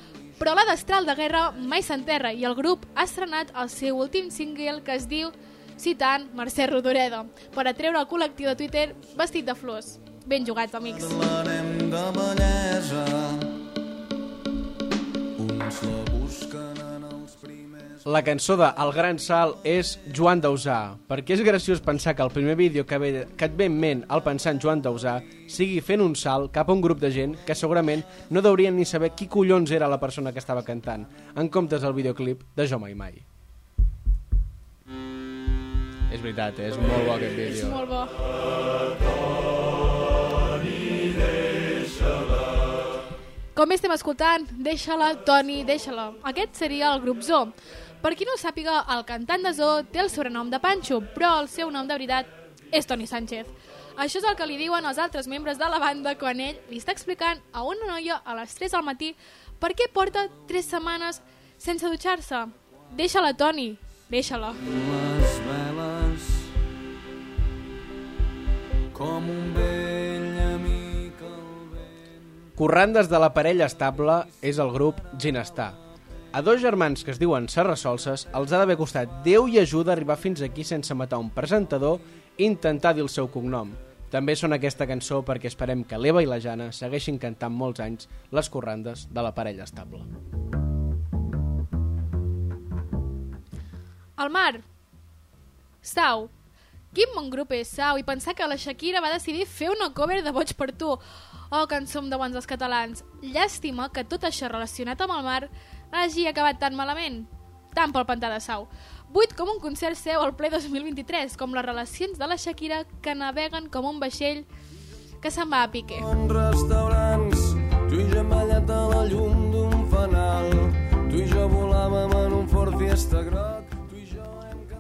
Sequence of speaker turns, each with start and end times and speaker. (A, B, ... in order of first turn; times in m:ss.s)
0:00.4-0:11.2 A
0:11.0-0:13.5 B
0:15.4-0:18.0 B
0:18.0-0:33.2 C
0:36.1-0:37.8 C
0:37.4-0:38.1 A
0:43.6-1:04.6 A
1:04.6-1:06.5 B
1:08.9-1:11.8 B
1:12.6-1:15.8 C
1:16.3-1:30.1 C
1:34.2-1:34.6 A
1:35.8-1:36.3 A
1:36.9-1:54.5 A
1:55.2-1:56.1 A
1:56.0-2:04.6 B